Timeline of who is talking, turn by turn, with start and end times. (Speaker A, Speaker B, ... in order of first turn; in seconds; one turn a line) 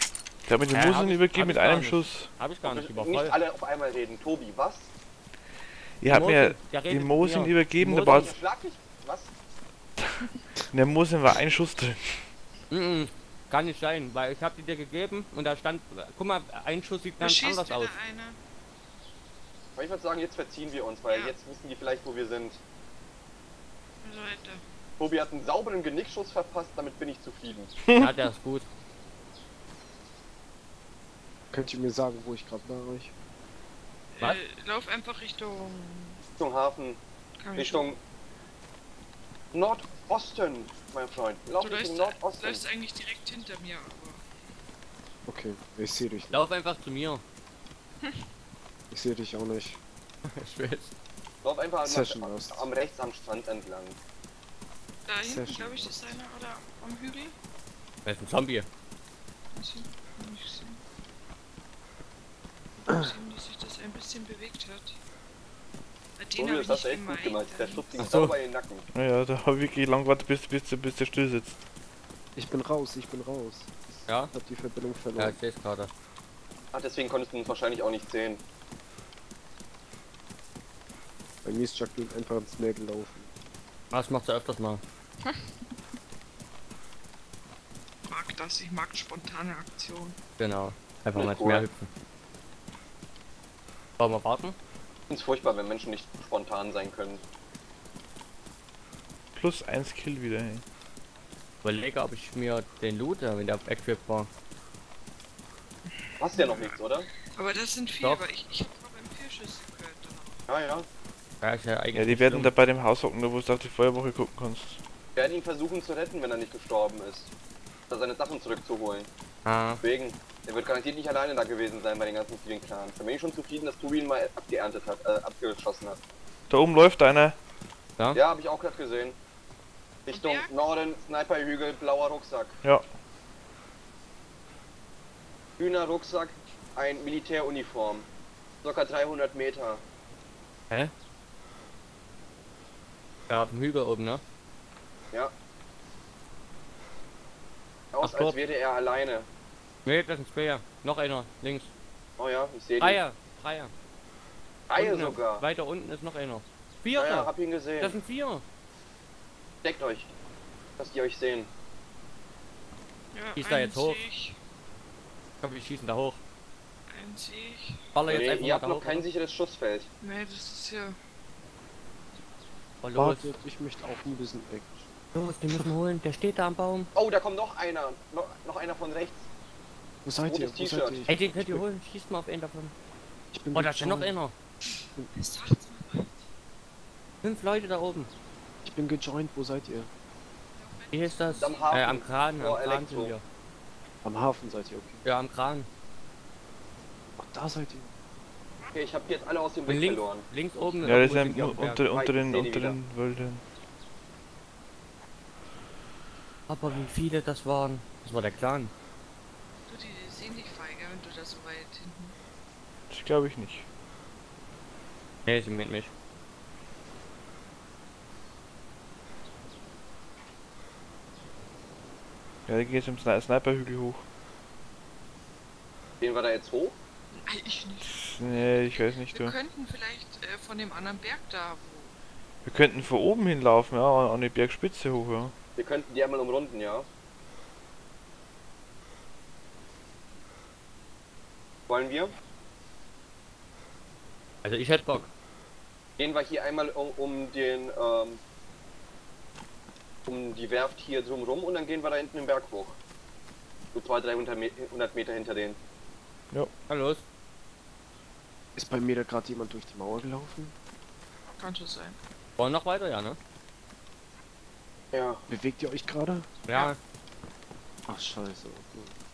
Speaker A: 0.5-2.3
Speaker B: 0.7-3.4
Speaker C: 2.6-4.9
Speaker A: 6.0-8.3
Speaker B: 6.1-8.3
Speaker C: 8.0-9.3
Speaker A: 10.0-12.3
Speaker B: 12.7-17.9
Speaker D: 17.2-18.4
Speaker C: 19.8-22.6
Speaker D: 21.1-21.4
Speaker D: 24.0-24.6
Speaker C: 25.0-27.7
Speaker A: 27.8-28.3
Speaker B: 28.0-28.7
Speaker E: 31.5-33.1
Speaker D: 34.1-36.2
Speaker C: 36.4-37.0
Speaker D: 37.4-37.9
Speaker C: 37.6-38.0
Speaker C: 39.5-42.6
Speaker D: 41.6-44.2
Speaker E: 45.3-46.4
Speaker B: 46.3-47.2
Speaker E: 48.9-49.8
Speaker B: 50.2-50.9
Speaker C: 51.4-54.0
Speaker E: 51.8-52.7
Speaker D: 55.1-57.4
Speaker E: 55.2-56.2
Speaker B: 58.0-58.7
Speaker D: 59.5-60.8
Speaker E: 62.9-63.1
Speaker D: 62.9-65.0
Speaker D: 66.2-68.1
Speaker C: 66.4-68.9
Speaker B: 68.0-68.4
Speaker A: 68.9-71.6
Speaker E: 72.4-75.4
Speaker B: 74.1-74.3
Speaker B: 75.2-75.9
Speaker C: 76.7-78.4
Speaker E: 81.4-83.3
Speaker B: 83.9-84.8
Speaker D: 85.2-85.5
Speaker D: 88.1-90.2
Speaker B: 90.4-91.9
Speaker C: 91.2-91.7
Speaker B: 94.0-94.6
Speaker C: 95.1-97.2
Speaker A: 99.3-100.7
Speaker B: 101.6-104.3
Speaker D: 105.9-106.8
Speaker C: 106.2-107.1
Speaker D: 107.3-110.4
Speaker C: 110.5-110.9
Speaker B: 111.4-112.5
Speaker A: 111.9-114.8
Speaker C: 115.2-117.3
Speaker C: 117.9-119.1
Speaker B: 119.5-119.8
Speaker C: 119.8-126.0
Speaker A: 126.5-127.4
Speaker C: 128.1-129.2
Speaker C: 130.1-132.6
Speaker D: 130.1-130.5
Speaker C: 135.6-138.1
Speaker C: 138.6-139.8
Speaker B: 143.3-144.2
Speaker C: 147.9-149.3
Speaker B: 148.0-148.4
Speaker B: 149.8-151.7
Speaker C: 152.2-153.0
Speaker B: 152.8-153.7
Speaker C: 154.7-155.4
Speaker B: 154.8-158.4
Speaker C: 157.0-158.0
Speaker C: 159.6-160.1
Speaker C: 160.8-161.5
Speaker D: 163.1-164.4
Speaker B: 163.4-164.0
Speaker B: 165.4-166.2
Speaker D: 166.9-167.9
Speaker B: 167.9-169.0
Speaker C: 168.1-169.9
Speaker D: 170.0-171.0
Speaker B: 172.8-173.3
Speaker E: 172.9-174.9
Speaker B: 175.2-176.9
Speaker C: 176.9-179.3
Speaker E: 180.0-181.6
Speaker C: 180.2-181.1
Speaker B: 181.1-182.7
Speaker E: 183.3-184.2
Speaker B: 183.5-184.3
Speaker D: 184.7-186.2
Speaker B: 187.2-188.1
Speaker E: 188.6-189.9
Speaker D: 190.6-192.2
Speaker B: 190.9-193.2
Speaker C: 191.4-193.1
Speaker E: 194.0-195.0
Speaker B: 195.0-195.7
Speaker E: 197.2-197.9
Speaker C: 198.7-200.3
Speaker B: 199.7-201.8
Speaker A: 200.8-203.4
Speaker C: 201.9-202.8
Speaker B: 206.5-208.7
Speaker D: 209.7-212.2
Speaker A: 212.9-213.7
Speaker B: 215.3-215.9
Speaker A: 222.5-224.0
Speaker C: 226.0-226.8
Speaker D: 227.1-231.9
Speaker A: 227.9-229.3
Speaker A: 232.4-235.3
Speaker C: 235.6-236.9
Speaker C: 241.7-242.2
Speaker B: 244.4-245.1
Speaker C: 246.0-248.2
Speaker C: 250.1-252.8
Speaker C: 253.7-255.6
Speaker B: 256.7-257.0
Speaker E: 258.6-260.6
Speaker D: 261.4-262.0
Speaker B: 262.4-263.2
Speaker C: 264.9-265.2
Speaker E: 265.3-266.3
Speaker B: 266.5-266.8
Speaker E: 267.9-268.9